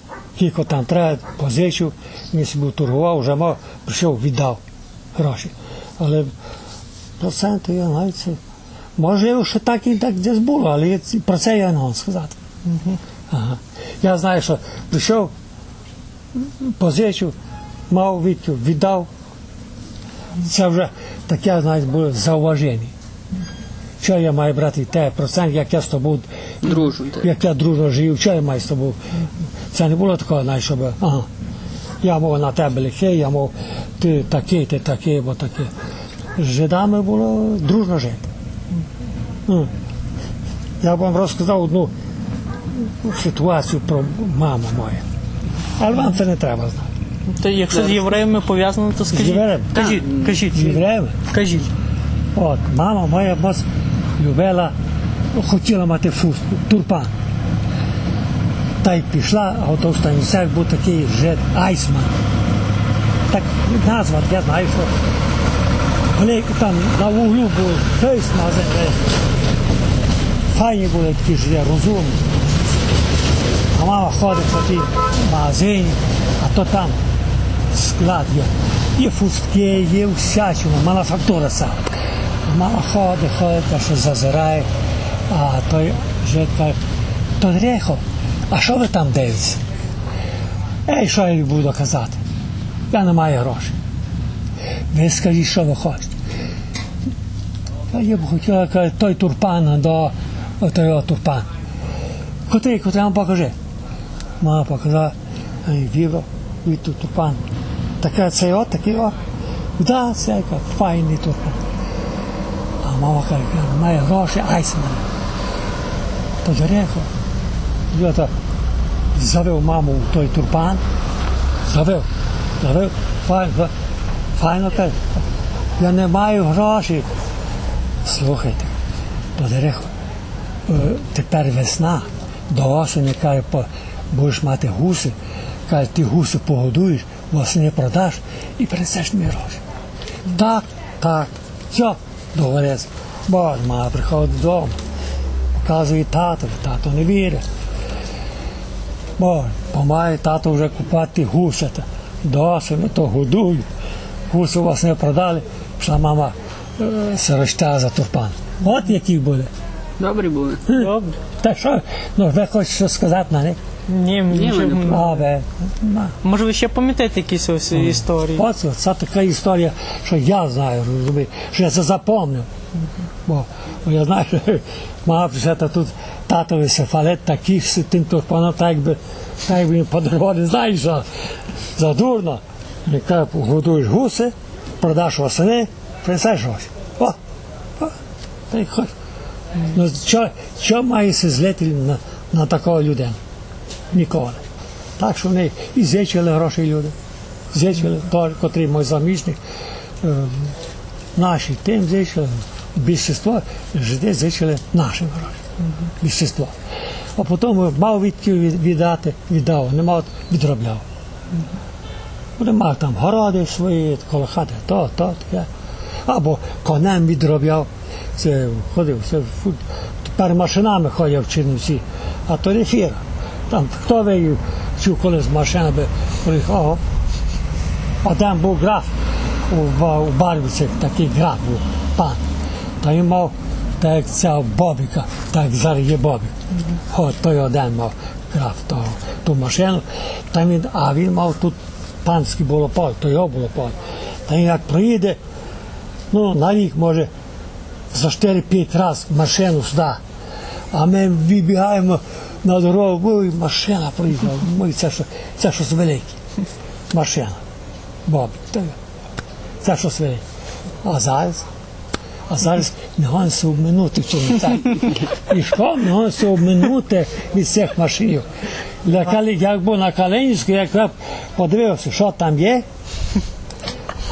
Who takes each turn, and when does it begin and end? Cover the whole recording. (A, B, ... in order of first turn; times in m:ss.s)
0:00.4-0:04.6 A
0:05.1-0:06.3 A
0:07.2-0:08.4 A
0:09.0-0:12.4 A
0:13.3-0:15.3 A
0:16.3-0:17.4 A
0:17.9-0:19.1 A
0:20.4-0:22.9 A
0:24.0-0:31.3 A
0:26.6-0:27.3 B
0:32.0-0:35.7 A
0:36.4-0:38.3 A
0:39.4-0:39.7 A
0:40.8-0:41.9 A
0:42.7-0:45.0 A
0:45.8-0:46.9 A
0:47.3-0:51.7 C
0:47.7-0:48.1 B
0:49.1-0:51.2 A
0:49.8-0:50.4 B
0:52.3-0:53.6 A
0:54.2-0:54.7 A
0:55.3-0:57.1 A
0:58.8-1:02.2 A
1:03.3-1:04.9 A
1:06.1-1:09.1 A
1:10.5-1:12.4 A
1:13.7-1:17.0 A
1:17.7-1:21.9 A
1:22.4-1:24.7 A
1:25.3-1:26.8 A
1:27.4-1:29.6 A
1:30.9-1:32.2 A
1:32.9-1:33.8 A
1:34.9-1:36.1 A
1:37.9-1:41.5 A
1:42.5-1:43.5 A
1:44.4-1:47.4 A
1:48.0-1:49.2 A
1:49.8-1:51.6 A
1:52.8-1:55.0 A
1:56.4-1:57.1 A
1:57.9-1:58.3 A
1:59.1-2:00.8 A
2:01.7-2:02.1 A
2:02.6-2:03.7 A
2:04.4-2:05.0 A
2:05.8-2:07.1 A
2:08.0-2:08.7 A
2:09.4-2:09.9 A
2:10.7-2:15.2 A
2:15.7-2:19.6 A
2:20.2-2:24.8 A
2:25.6-2:27.4 A
2:29.2-2:33.6 A
2:34.3-2:39.5 A
2:40.0-2:40.6 B
2:40.7-2:43.6 A
2:40.7-2:41.2 C
2:43.9-2:45.2 C
2:44.3-2:45.1 B
2:44.8-2:46.2 A
2:46.2-2:48.4 C
2:47.7-2:52.5 A
2:53.2-3:01.1 A
3:01.8-3:07.2 A
3:08.5-3:08.9 A
3:09.6-3:13.2 A
3:13.9-3:14.4 A
3:15.0-3:16.9 A
3:17.5-3:19.4 A
3:20.0-3:20.5 A
3:21.2-3:25.4 A
3:26.0-3:26.5 A
3:27.2-3:30.8 A
3:32.4-3:35.5 A
3:36.0-3:46.8 A
3:48.0-3:48.9 A
3:49.5-3:52.2 A
3:52.8-4:05.2 A
4:06.1-4:07.1 A
4:07.9-4:10.0 A
4:10.7-4:16.2 A
4:16.9-4:17.4 A
4:18.0-4:18.8 A
4:19.6-4:20.2 A
4:20.8-4:21.4 A
4:22.3-4:28.3 A
4:28.8-4:32.6 A